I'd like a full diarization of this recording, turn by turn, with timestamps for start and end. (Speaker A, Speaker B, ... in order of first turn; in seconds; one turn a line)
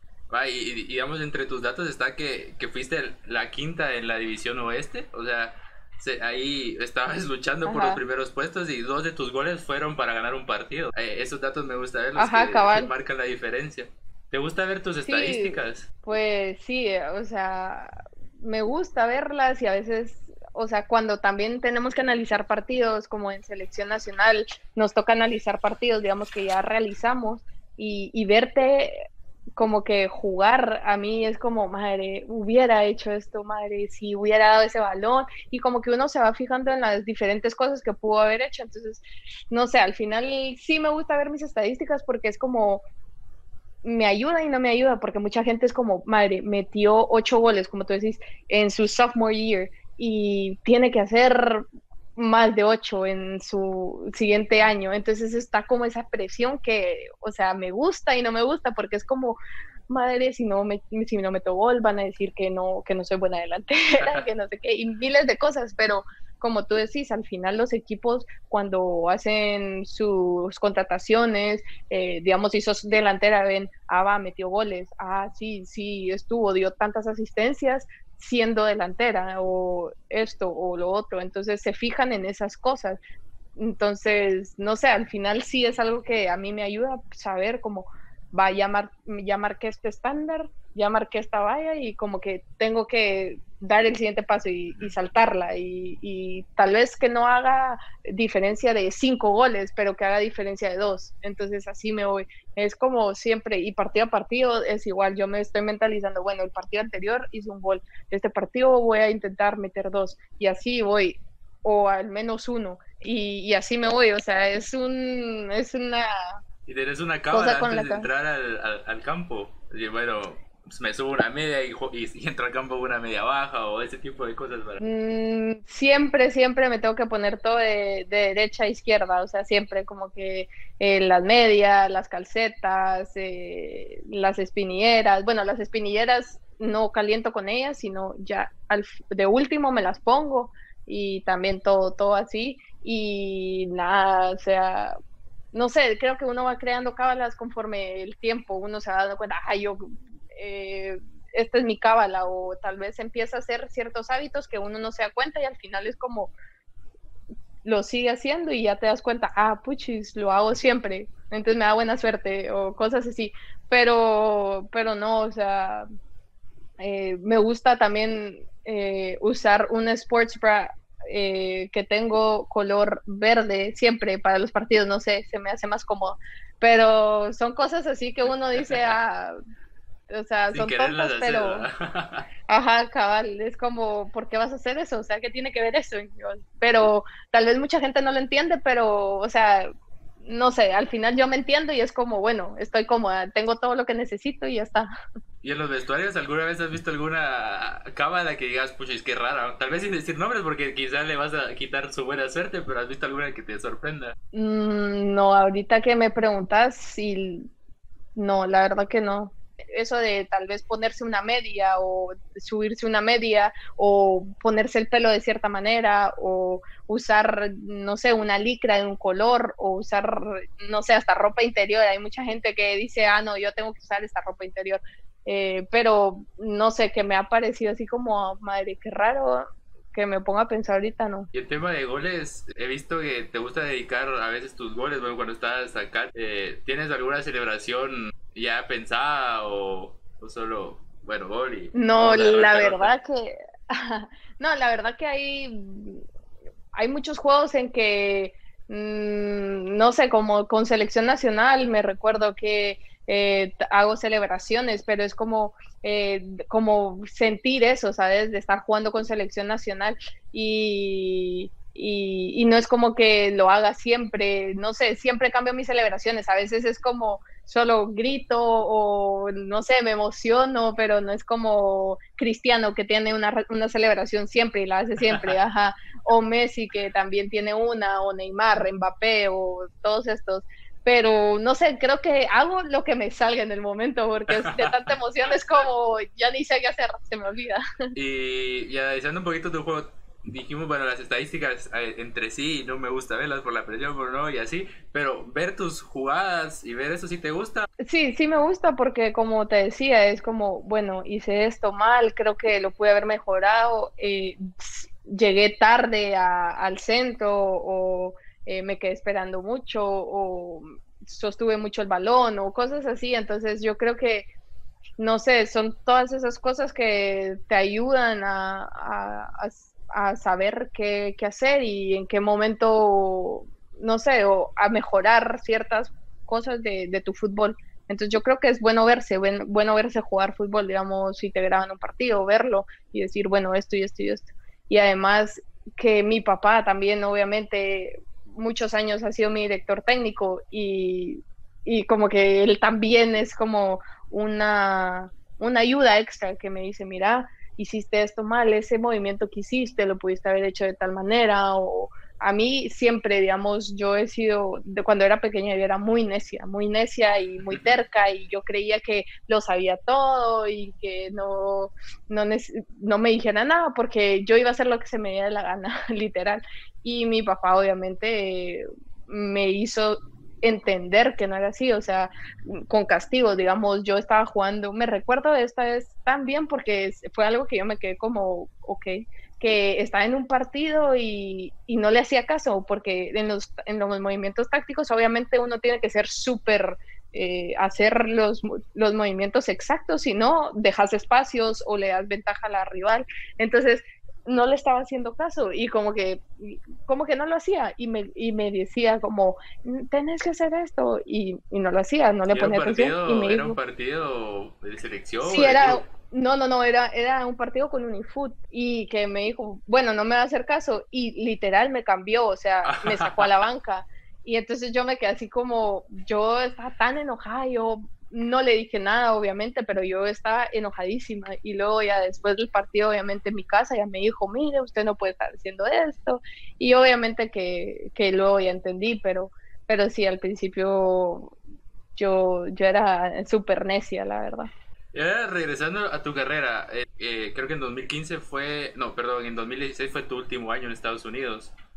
Speaker A: 0.3-15.9
Speaker B: 7.6-8.0
Speaker B: 12.2-12.9
Speaker B: 15.1-29.0
Speaker B: 29.6-42.8
Speaker B: 43.8-59.4
Speaker B: 59.9-83.0
Speaker B: 83.5-116.4
Speaker A: 116.7-124.8
Speaker B: 117.3-118.1
Speaker B: 124.8-144.9
Speaker B: 145.5-156.3
Speaker B: 157.6-165.8
Speaker B: 166.8-179.3
Speaker B: 180.1-181.7
Speaker A: 180.5-182.2
Speaker B: 182.5-189.7
Speaker B: 190.2-194.9
Speaker A: 195.4-204.1
Speaker B: 204.3-207.5
Speaker B: 208.2-231.3
Speaker A: 231.3-242.9
Speaker B: 241.7-246.0
Speaker B: 246.7-287.6
Speaker A: 284.4-284.7
Speaker A: 287.9-297.7
Speaker B: 297.8-314.3
Speaker B: 315.0-403.6
Speaker A: 402.3-405.8
Speaker B: 405.2-431.3
Speaker A: 412.6-413.3
Speaker B: 431.9-434.5
Speaker A: 434.9-441.5